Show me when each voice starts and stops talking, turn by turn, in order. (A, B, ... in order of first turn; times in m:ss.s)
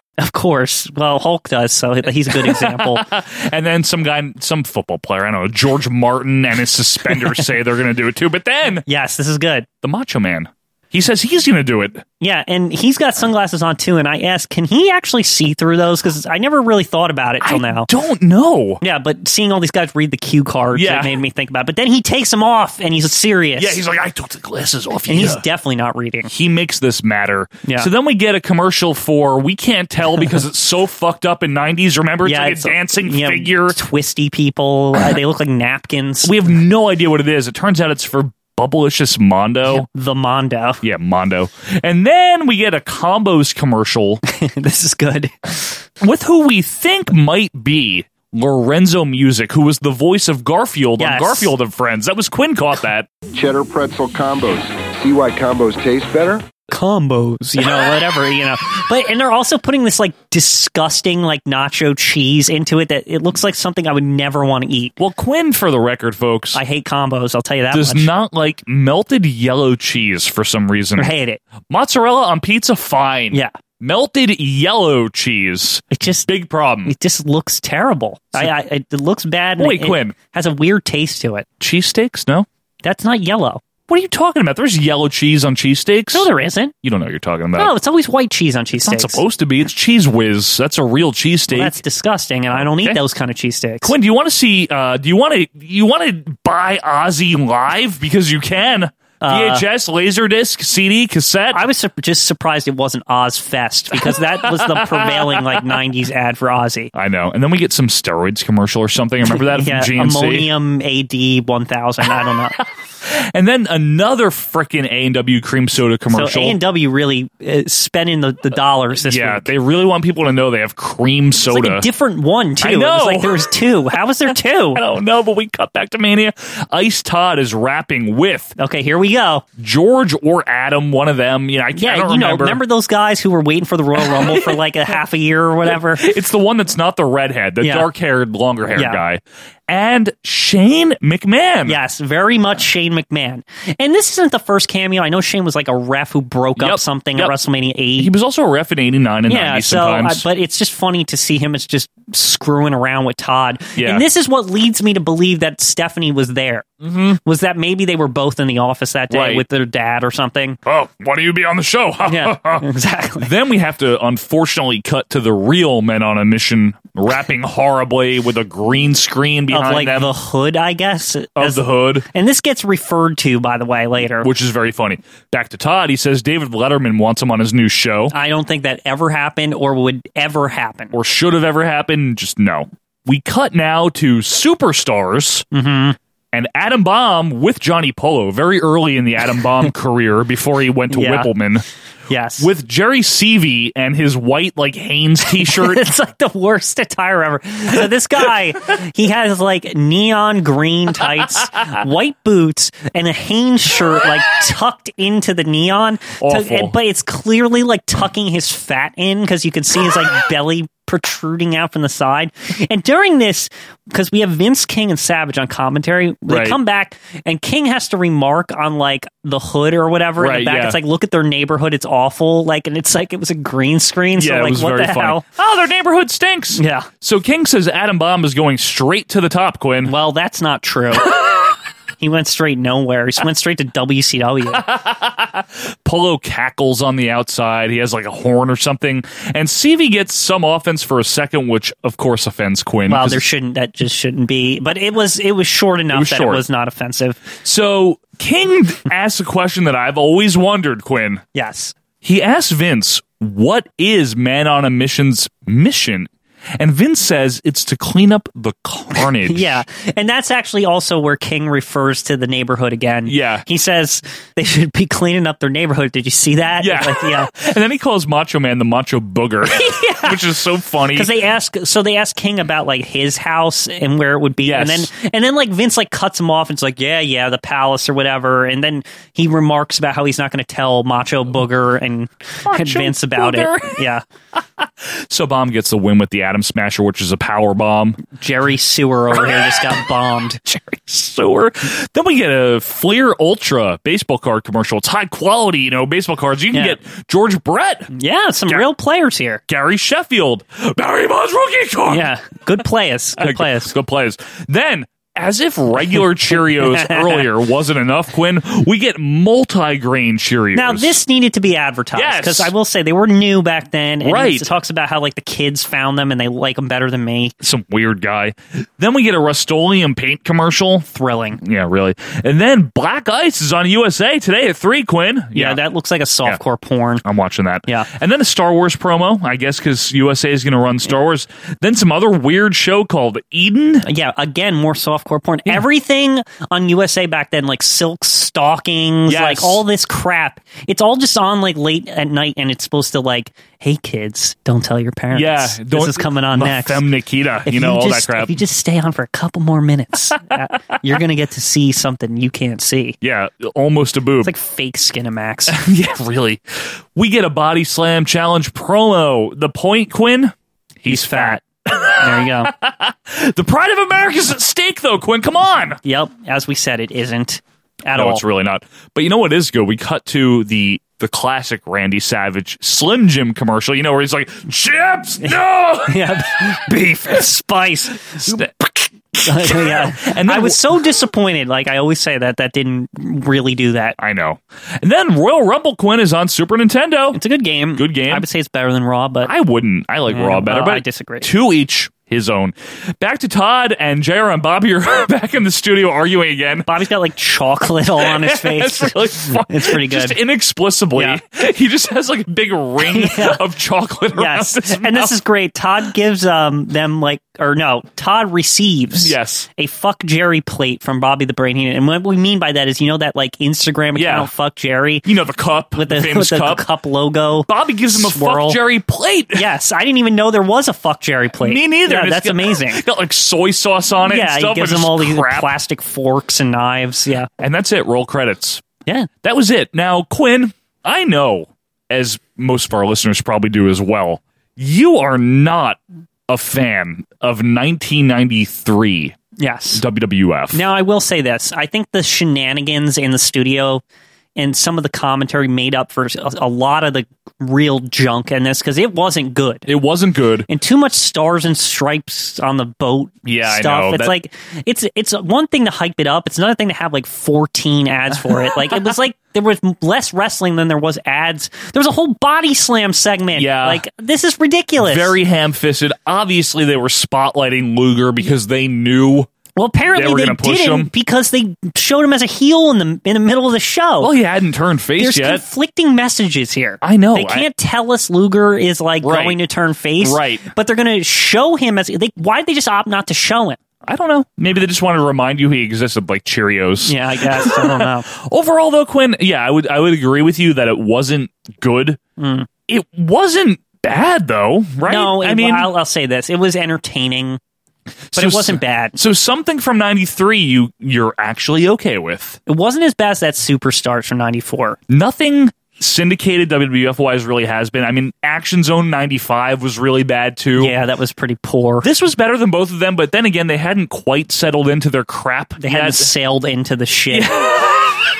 0:00.2-0:03.0 A
0:02.2-0:08.8 B
0:07.1-0:07.5 A
0:08.9-0:09.7 A
0:09.8-0:12.0 B
0:12.2-0:17.9 A
0:17.4-0:18.8 B
0:18.8-0:23.8 A
0:20.7-0:21.2 B
0:23.6-0:25.4 B
0:25.1-0:26.3 A
0:26.3-0:33.8 B
0:27.6-0:27.9 A
0:32.2-0:36.3 A
0:36.2-0:39.9 B
0:39.7-0:40.8 A
0:40.8-0:44.2 B
0:44.2-0:45.8 A
0:46.0-0:53.1 B
0:51.0-0:51.5 A
0:53.3-0:56.4 C
0:56.7-1:05.0 A
1:05.0-1:06.6 B
1:06.5-1:08.1 A
1:07.7-1:11.1 B
1:11.0-1:11.4 A
1:11.7-1:16.9 B
1:15.9-1:16.3 A
1:16.8-1:21.5 A
1:19.6-1:20.2 B
1:21.6-1:22.5 B
1:22.8-1:23.6 A
1:23.9-1:26.3 B
1:26.1-1:26.7 A
1:26.8-1:27.7 B
1:27.6-1:29.2 A
1:28.8-1:31.8 B
1:31.5-1:33.9 A
1:32.5-1:33.0 B
1:33.8-1:41.7 B
1:39.2-1:39.6 A
1:41.5-1:46.9 A
1:43.9-1:45.6 B
1:46.9-1:50.5 B
1:49.4-1:52.6 A
1:53.0-1:56.6 B
1:56.1-1:59.5 A
1:58.9-2:01.8 B
2:01.4-2:04.8 A
2:02.6-2:03.4 B
2:04.3-2:08.5 B
2:08.6-2:09.4 A
2:09.6-2:12.6 B
2:11.7-2:16.0 A
2:14.0-2:14.6 B
2:15.7-2:21.8 B
2:17.6-2:17.9 A
2:18.8-2:19.0 A
2:21.6-2:28.1 A
2:26.6-2:27.3 B
2:28.0-2:30.2 B
2:29.3-2:40.6 A
2:33.8-2:34.0 B
2:36.8-2:37.2 B
2:39.1-2:39.4 B
2:40.6-2:42.7 B
2:42.0-2:43.3 A
2:43.2-2:50.1 B
2:49.5-2:54.3 A
2:51.4-2:52.0 B
2:54.1-2:58.1 B
2:58.1-3:00.9 A
3:00.9-3:05.4 B
3:05.5-3:06.0 A
3:06.3-3:11.6 B
3:10.9-3:11.3 A
3:12.1-3:12.5 A
3:12.4-3:15.8 B
3:15.3-3:45.2 A
3:26.2-3:26.7 B
3:36.3-3:36.6 B
3:40.2-3:40.8 B
3:44.2-3:49.9 B
3:46.6-3:46.9 A
3:49.8-3:51.1 A
3:52.0-3:54.7 A
3:54.5-4:03.2 B
4:02.9-4:07.2 A
4:05.9-4:06.4 B
4:07.4-4:11.2 B
4:11.3-4:11.7 A
4:12.0-4:19.6 B
4:19.0-4:27.3 A
4:23.0-4:23.4 B
4:26.6-4:31.1 B
4:29.5-4:30.2 A
4:30.9-4:44.0 A
4:34.4-4:34.9 B
4:42.4-4:43.8 B
4:44.3-4:48.0 B
4:48.2-4:50.4 A
4:49.1-4:49.6 B
4:50.4-4:57.9 B
4:56.5-4:56.8 A
4:57.9-4:59.4 A
4:59.5-5:02.1 B
5:01.9-5:03.7 A
5:03.2-5:11.0 B
5:05.8-5:07.3 A
5:10.6-5:17.3 A
5:11.9-5:12.5 B
5:14.0-5:14.5 B
5:17.4-5:20.8 B
5:20.9-5:21.4 A
5:21.4-5:25.6 B
5:25.3-5:27.0 A
5:27.0-5:33.8 B
5:33.8-5:46.8 A
5:39.1-5:39.6 B
5:45.1-5:48.4 B
5:47.4-5:53.0 A
5:53.0-5:54.3 B
5:54.2-5:55.6 A
5:55.5-6:05.8 B
6:00.9-6:01.4 A
6:02.0-6:02.5 A
6:05.8-6:08.2 A
6:07.9-6:16.1 B
6:15.2-6:18.4 A
6:18.2-6:20.6 B
6:19.2-6:24.0 A
6:24.0-6:27.2 B
6:27.1-6:29.3 A
6:27.8-6:28.2 B
6:29.2-6:36.7 B
6:30.1-6:31.3 A
6:36.7-6:40.2 A
6:38.0-6:45.1 B
6:42.8-6:43.4 A
6:44.1-6:55.1 A
6:48.9-6:49.5 B
6:53.9-6:54.3 B
6:55.0-6:56.6 B
6:55.8-6:58.6 A
6:57.5-6:59.5 B
6:59.3-7:02.8 A
7:01.4-7:05.5 B
7:04.0-7:07.3 A
7:07.4-7:08.6 B
7:09.2-7:19.2 B
7:19.4-7:19.8 A
7:19.7-7:20.6 B
7:20.5-7:23.8 A
7:24.4-7:29.7 A
7:29.7-7:30.5 B
7:30.5-7:45.1 A
7:33.2-7:34.1 B
7:43.3-7:43.8 B
7:44.8-7:49.3 B
7:49.6-7:54.1 A
7:49.9-7:50.9 B
7:54.0-7:55.4 B
7:55.0-8:03.6 A
7:56.8-7:57.5 B
7:59.0-7:59.4 B
8:00.0-8:00.4 B
8:03.8-8:12.0 B
8:06.8-8:08.0 A
8:12.2-8:12.5 A
8:12.7-8:15.7 B
8:14.8-8:17.4 A
8:18.1-8:22.4 B
8:18.1-8:19.0 A
8:22.5-8:24.8 A
8:24.9-8:30.8 B
8:30.6-8:31.9 A
8:31.8-8:36.1 B
8:35.6-8:37.3 A
8:37.1-8:38.0 B